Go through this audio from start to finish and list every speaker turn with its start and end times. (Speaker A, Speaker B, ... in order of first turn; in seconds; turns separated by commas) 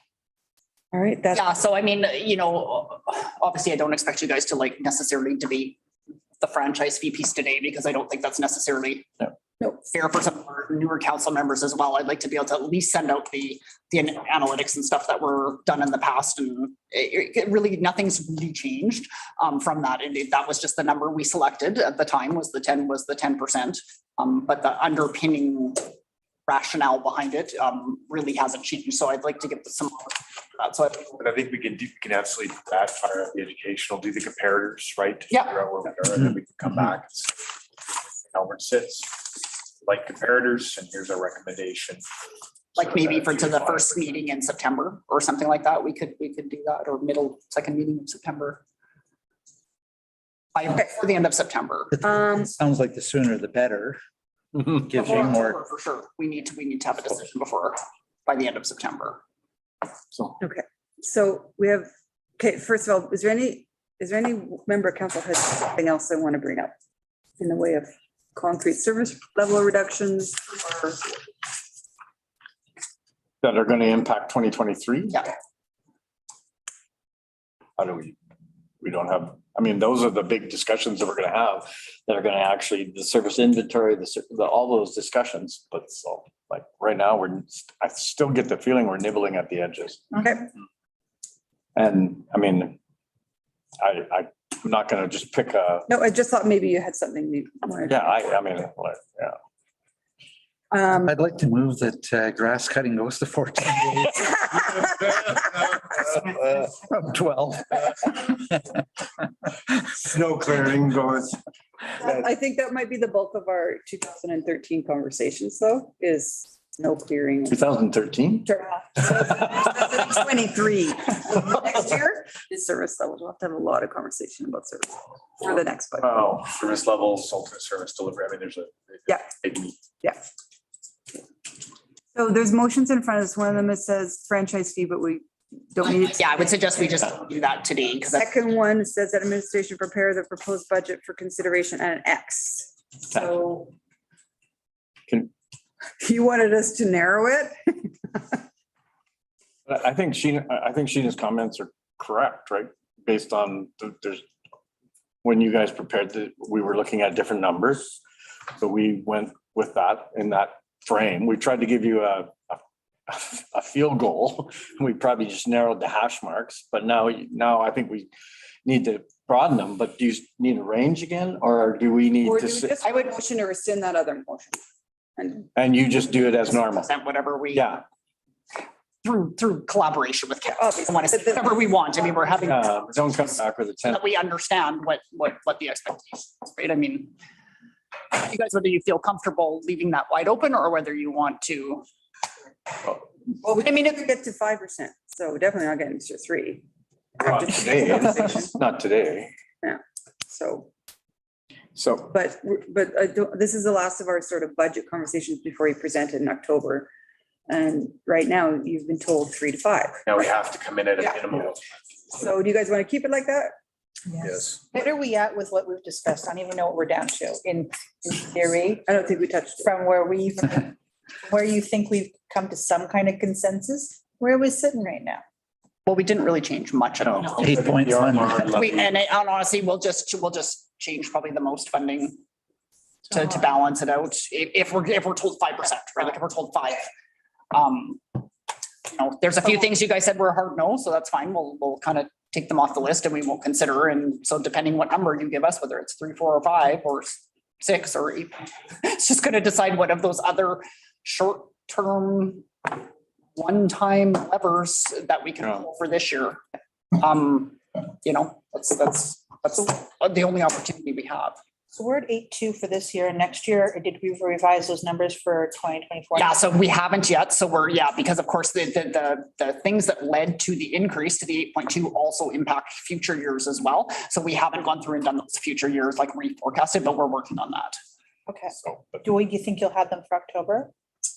Speaker A: 0.9-1.4, Speaker B: 1.3-5.8, Speaker B: 6.4-25.9, Speaker B: 26.5-31.1, Speaker C: 31.2-37.5, Speaker B: 35.3-35.6, Speaker C: 38.3-42.0, Speaker C: 42.8-44.1, Speaker B: 42.8-48.6, Speaker B: 50.5-51.9, Speaker D: 51.9-54.0, Speaker A: 52.0-52.5, Speaker D: 54.7-55.6, Speaker B: 54.9-59.2, Speaker A: 60.4-66.7, Speaker A: 67.4-71.1, Speaker E: 73.4-75.1, Speaker E: 77.8-78.2, Speaker E: 78.8-90.2, Speaker A: 90.2-90.5, Speaker E: 91.7-92.8, Speaker E: 93.8-95.9, Speaker A: 95.9-98.0, Speaker E: 97.9-99.4, Speaker A: 100.7-101.1, Speaker D: 101.0-104.9, Speaker D: 106.1-108.3, Speaker C: 110.1-111.4, Speaker A: 112.0-117.6, Speaker E: 117.5-119.7, Speaker A: 118.4-126.3, Speaker C: 126.0-129.7, Speaker A: 132.1-136.5, Speaker B: 135.8-138.3, Speaker A: 138.2-143.7, Speaker A: 146.0-148.4, Speaker E: 149.7-154.2, Speaker E: 155.2-157.9, Speaker E: 158.6-168.1, Speaker E: 168.6-172.8, Speaker A: 172.2-174.6, Speaker A: 175.2-175.5, Speaker E: 175.6-176.9, Speaker B: 176.7-177.7, Speaker E: 177.5-177.8, Speaker B: 179.0-182.9, Speaker A: 180.6-181.6, Speaker E: 182.4-184.0, Speaker B: 183.8-187.1, Speaker B: 188.1-191.8, Speaker A: 193.4-196.6, Speaker A: 197.2-198.5, Speaker E: 197.2-199.3, Speaker A: 199.6-200.7, Speaker E: 201.8-202.1, Speaker A: 202.1-206.9, Speaker A: 207.5-210.0, Speaker C: 210.1-211.6, Speaker A: 212.1-213.5, Speaker F: 214.1-218.9, Speaker C: 214.3-214.6, Speaker A: 218.8-219.7, Speaker F: 219.6-220.7, Speaker F: 221.2-225.2, Speaker B: 225.8-227.6, Speaker D: 227.4-228.4, Speaker C: 227.4-228.9, Speaker B: 228.4-232.2, Speaker B: 233.1-236.9, Speaker B: 237.5-238.2, Speaker B: 238.9-252.8, Speaker B: 253.3-256.4, Speaker B: 256.9-261.4, Speaker F: 261.7-266.4, Speaker B: 266.1-277.8, Speaker F: 278.3-280.7, Speaker E: 278.6-279.1